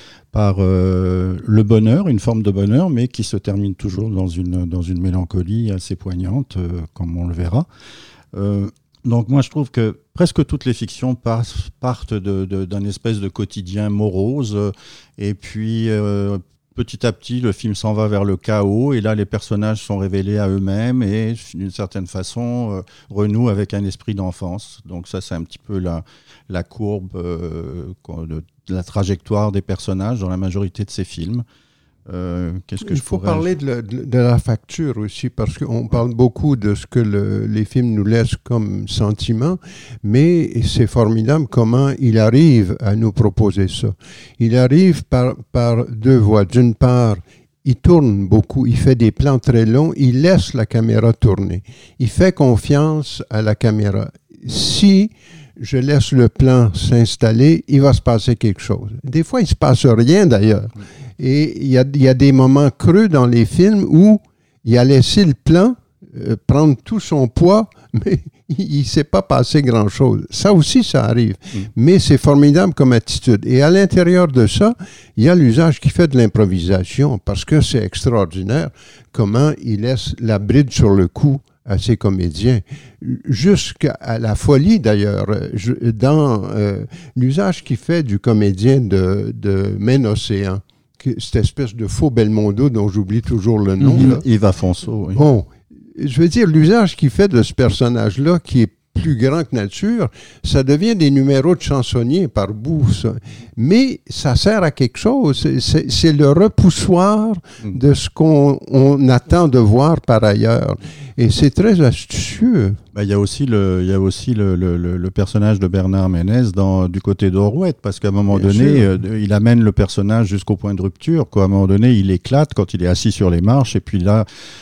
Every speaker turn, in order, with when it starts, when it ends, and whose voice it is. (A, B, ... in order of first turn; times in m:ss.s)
0:00.3-0:07.7 A
0:08.3-0:31.4 A
0:32.1-0:33.5 A
0:32.8-1:34.2 B
1:33.8-1:35.3 A
1:35.1-1:52.8 B
1:52.9-2:04.3 A
1:58.3-1:58.9 B